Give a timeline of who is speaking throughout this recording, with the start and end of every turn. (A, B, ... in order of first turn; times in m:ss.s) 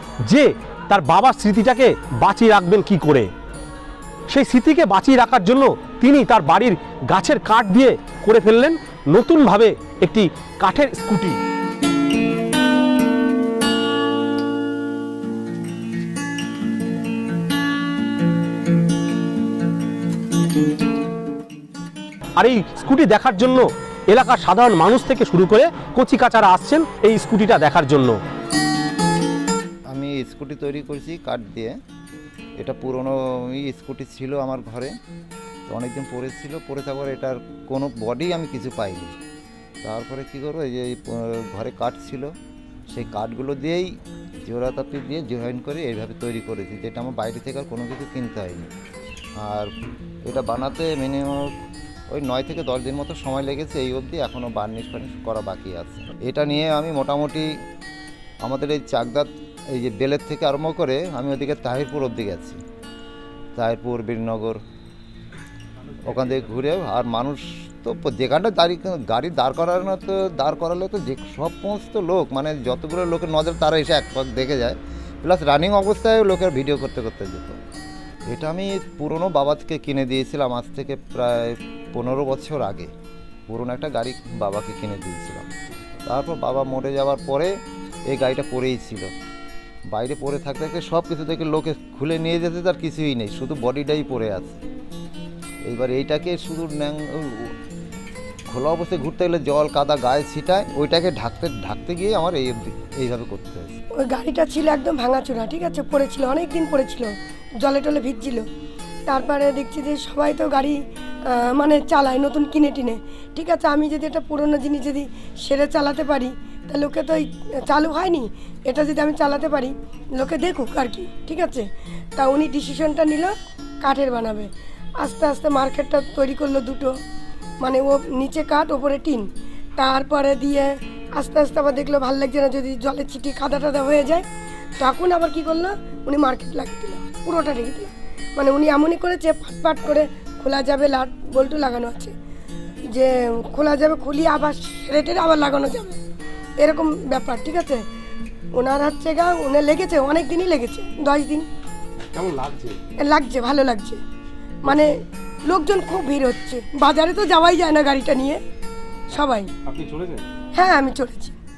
0:00.3-0:03.3 A
0:04.3-0:11.4 A
0:22.4-0:28.2 A
0:29.9-0:31.8 B
0:32.6-0:34.9 B
0:35.7-0:39.2 B
0:39.8-0:42.3 B
0:42.9-0:43.9 B
0:44.4-0:48.7 B
0:49.4-0:49.7 B
0:50.2-0:51.5 B
0:52.1-0:57.5 B
0:58.4-1:02.6 B
1:03.6-1:04.6 B
1:06.0-1:17.6 B
1:18.3-1:22.9 B
1:23.5-1:25.5 B
1:26.0-1:27.5 B
1:28.1-1:29.1 B
1:29.9-1:34.6 B
1:35.7-1:37.5 B
1:38.5-1:43.8 B
1:44.0-1:48.4 C
1:49.1-2:06.9 C
2:07.6-2:14.3 C
2:14.8-2:22.1 C
2:22.9-2:26.0 C
2:26.6-2:27.8 C
2:28.6-2:31.5 C
2:32.2-2:32.8 A
2:33.0-2:34.0 C
2:34.6-2:34.9 C
2:35.5-2:38.4 C
2:39.1-2:39.5 C
2:39.7-2:40.2 A
2:40.5-2:41.4 C